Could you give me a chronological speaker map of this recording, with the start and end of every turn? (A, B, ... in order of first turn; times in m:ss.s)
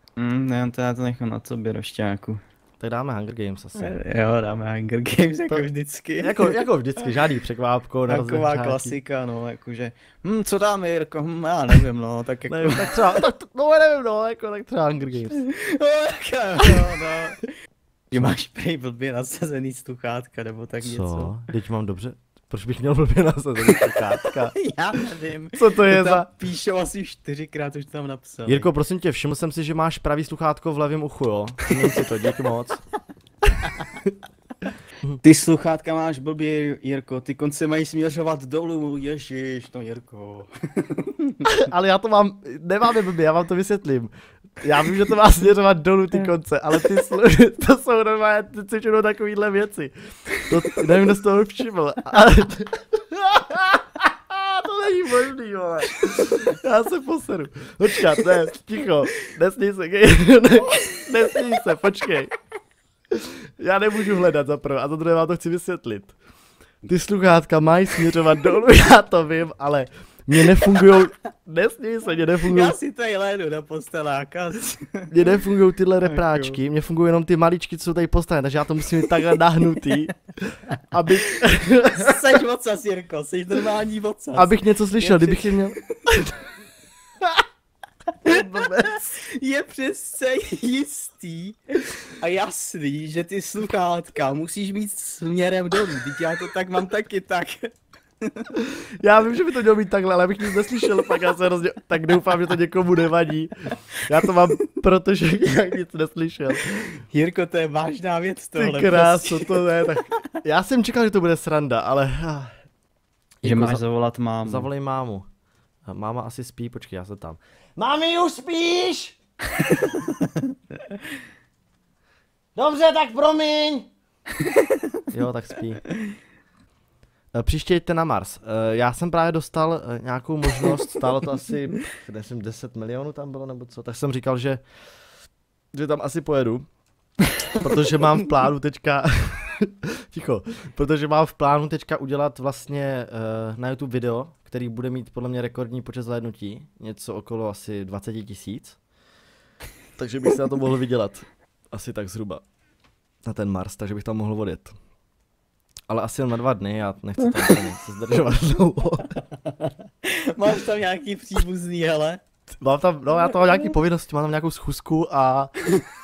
0:00.2-0:02.4 A
0:02.8-0:04.0 B
0:03.8-0:07.2 A
0:06.2-0:09.0 B
0:08.1-0:13.2 A
0:12.5-0:15.4 B
0:15.3-0:17.5 A
0:18.1-0:21.4 A
0:20.8-0:24.6 B
0:23.6-0:28.7 A
0:25.6-0:26.3 B
0:28.5-0:32.8 B
0:35.2-0:41.4 A
0:41.4-1:02.3 B
1:03.1-1:06.2 B
1:06.9-1:12.8 B
1:10.4-1:11.1 A
1:12.2-1:15.3 A
1:15.1-1:22.2 B
1:16.0-1:16.6 A
1:21.9-1:26.1 A
1:24.4-1:26.4 B
1:28.2-1:29.2 B
1:28.3-1:38.5 A
1:38.6-1:47.0 B
1:47.1-1:50.0 A
1:48.6-1:52.5 B
1:53.4-1:53.8 B
1:53.4-1:54.7 A
1:54.4-1:55.2 B
1:55.9-1:59.2 B
1:59.6-2:00.5 A
2:02.6-2:03.9 B
2:05.1-2:05.9 B
2:07.3-2:14.6 B
2:15.7-2:16.7 B
2:17.5-2:28.8 B
2:30.0-2:32.4 B
2:33.2-2:34.8 B
2:35.9-2:39.2 B
2:39.2-2:42.2 A
2:42.6-2:45.6 B